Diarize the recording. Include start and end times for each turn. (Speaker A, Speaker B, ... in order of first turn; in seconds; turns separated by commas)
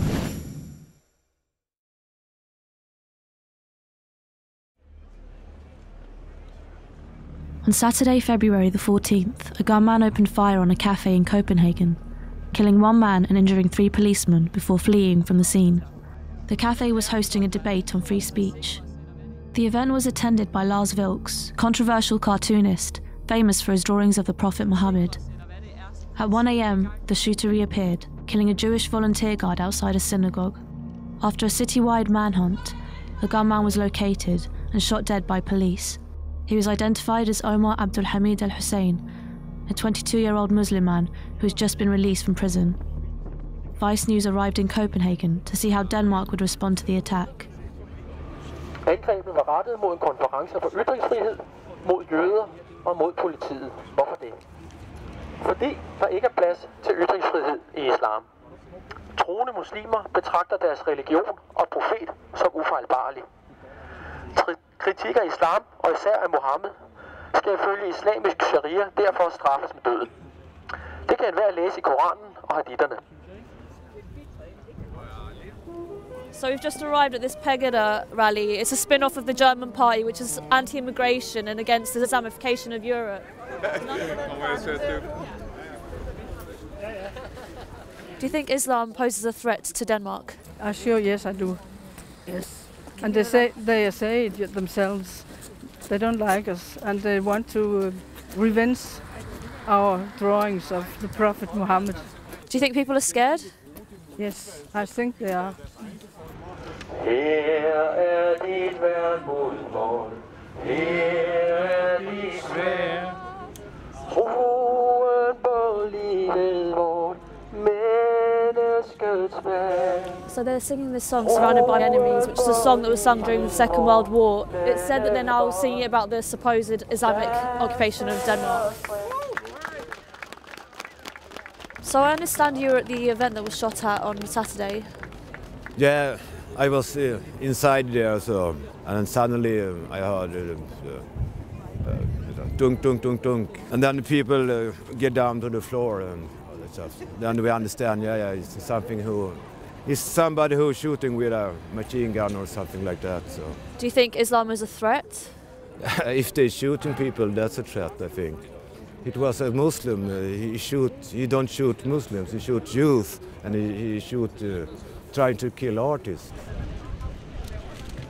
Speaker A: 7.6-12.0, Speaker A: 12.5-15.8, Speaker A: 16.5-18.8, Speaker A: 19.5-25.2, Speaker A: 26.2-30.6, Speaker A: 31.2-39.0, Speaker A: 39.7-42.8, Speaker A: 43.8-47.5, Speaker B: 48.9-54.4, Speaker B: 55.4-58.3, Speaker B: 59.2-63.3, Speaker B: 64.3-66.8, Speaker B: 67.3-70.1, Speaker B: 71.1-73.0, Speaker C: 76.3-83.3, Speaker C: 88.2-90.4, Speaker D: 90.6-91.6, Speaker D: 92.2-99.1, Speaker D: 99.6-102.0, Speaker C: 102.5-103.5, Speaker D: 104.2-105.6, Speaker B: 107.0-113.0, Speaker B: 114.1-120.2, Speaker C: 120.3-128.8, Speaker C: 131.8-134.9, Speaker E: 135.8-141.1, Speaker E: 141.8-153.6, Speaker C: 153.8-155.4, Speaker E: 156.0-158.5, Speaker E: 159.0-166.3